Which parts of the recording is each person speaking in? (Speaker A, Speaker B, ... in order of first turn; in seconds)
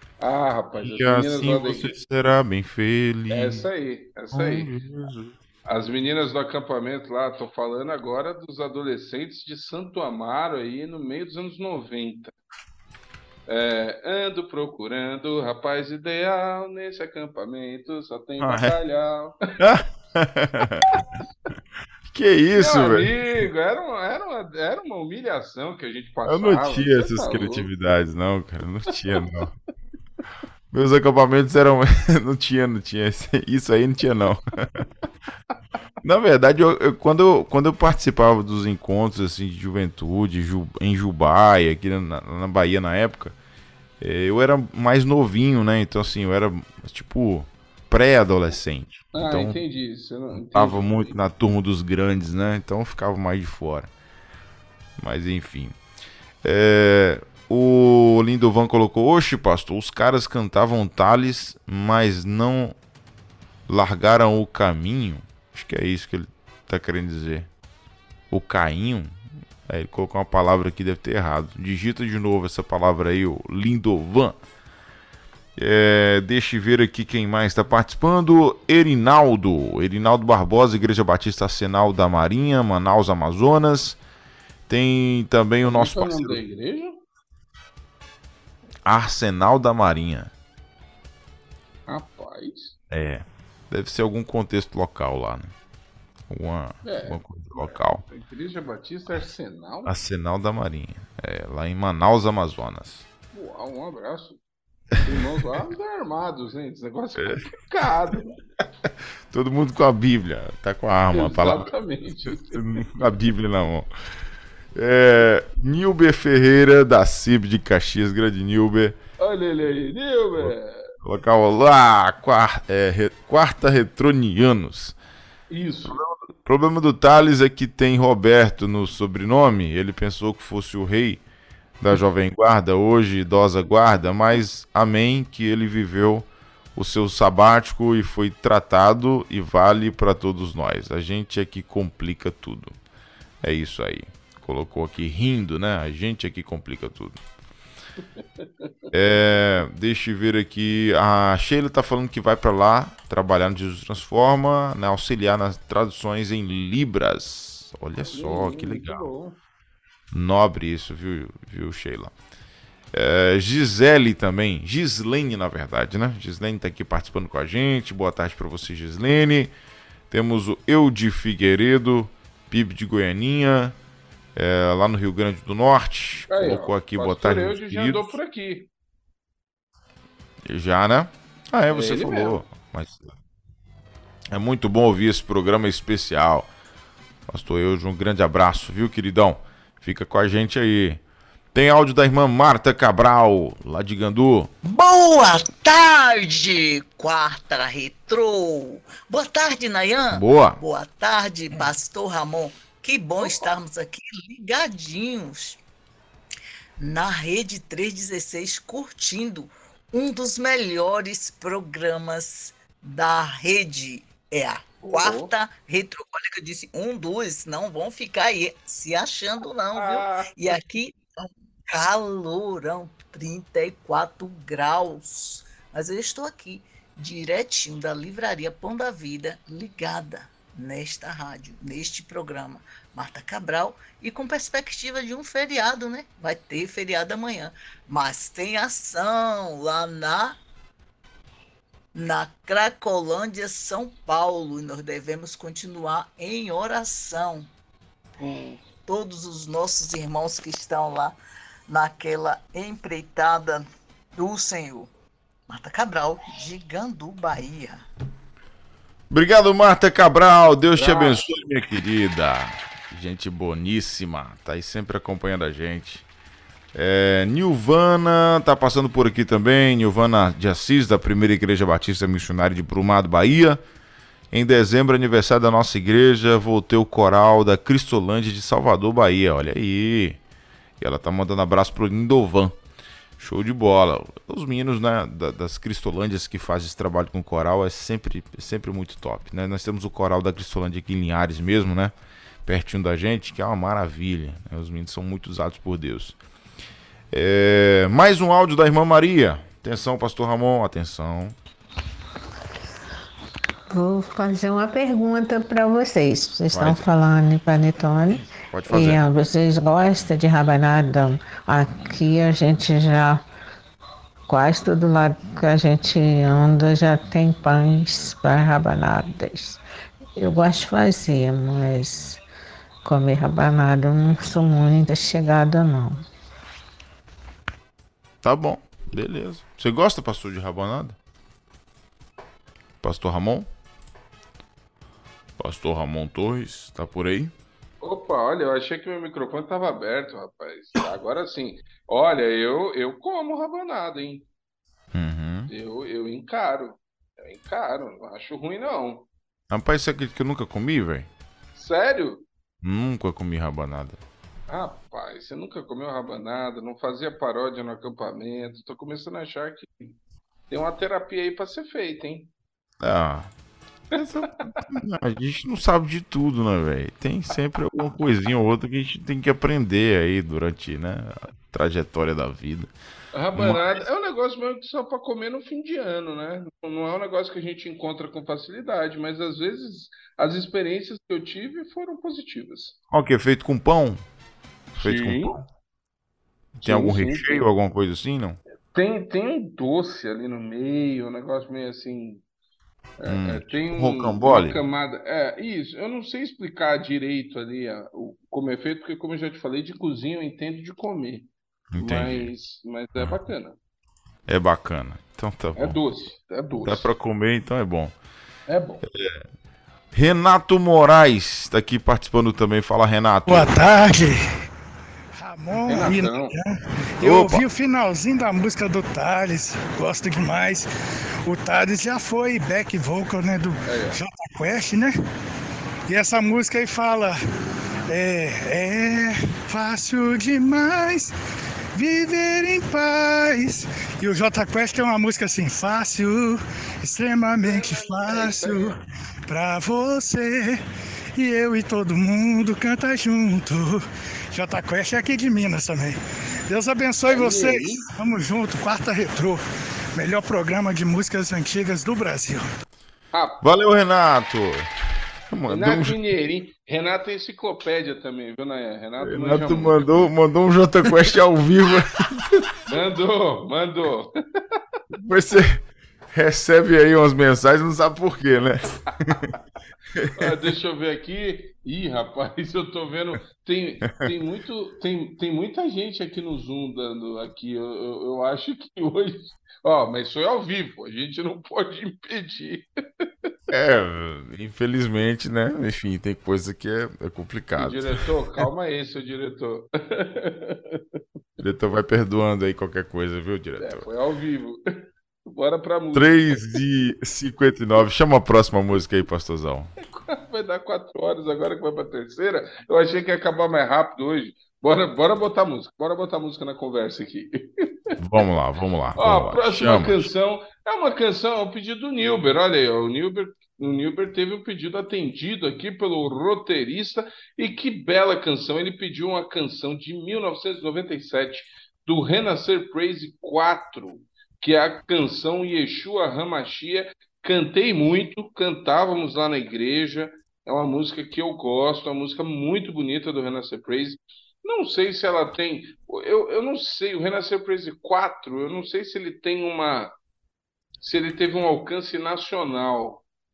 Speaker A: 0.2-1.9, 3.3-4.7, 5.7-12.3, 13.5-19.4, 22.6-27.7, 49.1-51.2, 85.6-87.0, 91.9-92.8, 96.8-99.9, 103.3-104.4, 105.0-108.4, 111.1-112.9, 119.2-120.9, 125.5-126.0, 148.4-148.9, 158.0-159.4, 176.3-178.7, 181.7-182.4, 214.8-215.3, 219.7-220.3, 248.2-248.6, 260.8-261.2, 337.8-344.3, 345.5-349.1, 351.6-352.2, 354.5-360.0, 360.5-362.3, 373.1-382.8, 384.8-385.4, 386.6-387.5, 388.7-392.2, 393.0-403.6, 405.6-406.9, 408.5-408.9, 415.7-416.4, 423.6-424.0, 437.4-438.8, 447.1-447.9, 453.1-453.4, 455.5-460.1, 462.7-464.1, 470.2-482.7, 487.6-490.8, 493.6-496.4, 499.9-507.5, 509.0-539.9, 540.8-543.0
Speaker B: 0.8-3.7, 4.3-5.4, 18.4-18.8, 19.6-20.9, 22.1-23.1, 26.3-29.5, 30.7-34.7, 36.0-43.4, 44.0-49.6, 50.5-53.9, 55.0-55.8, 56.4-62.8, 63.7-67.5, 68.3-74.4, 75.6-84.0, 84.7-86.4, 88.9-90.3, 92.9-95.5, 96.3-98.0, 99.8-103.1, 109.3-111.7, 112.3-113.9, 114.8-119.0, 120.4-125.0, 125.9-131.2, 131.8-142.8, 143.4-147.2, 148.9-159.1, 160.1-162.2, 162.9-169.5, 170.1-173.8, 174.3-178.2, 180.5-183.1, 184.3-186.5, 187.3-191.0, 191.5-194.5, 200.1-200.6, 259.1-266.1, 266.7-273.6, 274.3-280.2, 280.8-282.6, 283.2-291.9, 292.4-296.2, 297.1-301.4, 306.5-306.9, 308.5-309.0, 328.2-331.0, 332.8-333.5, 335.4-337.3, 344.9-345.5, 349.5-351.1, 352.6-354.0, 362.8-363.3, 363.9-372.7, 373.4-373.8, 382.9-384.0, 384.8-385.5, 386.6-388.4, 393.1-394.6, 401.7-402.3, 404.3-405.8, 406.6-407.9, 408.8-409.3, 409.9-413.7, 417.0-417.4, 453.4-454.7, 455.3-456.0, 459.0-462.5, 464.9-469.3, 469.9-470.3, 483.5-488.0, 491.4-493.9, 495.9-499.7, 508.0-510.1
Speaker C: 194.6-205.6, 206.8-240.4, 241.9-247.5, 248.8-251.2, 251.7-254.9, 255.5-257.8
Speaker D: 303.7-313.2, 314.3-319.6, 320.2-322.2, 322.9-326.0
Speaker E: 413.3-414.3, 415.2-420.7, 421.2-424.9, 425.9-427.2, 427.9-431.1, 431.8-440.6, 441.2-449.4, 450.0-452.5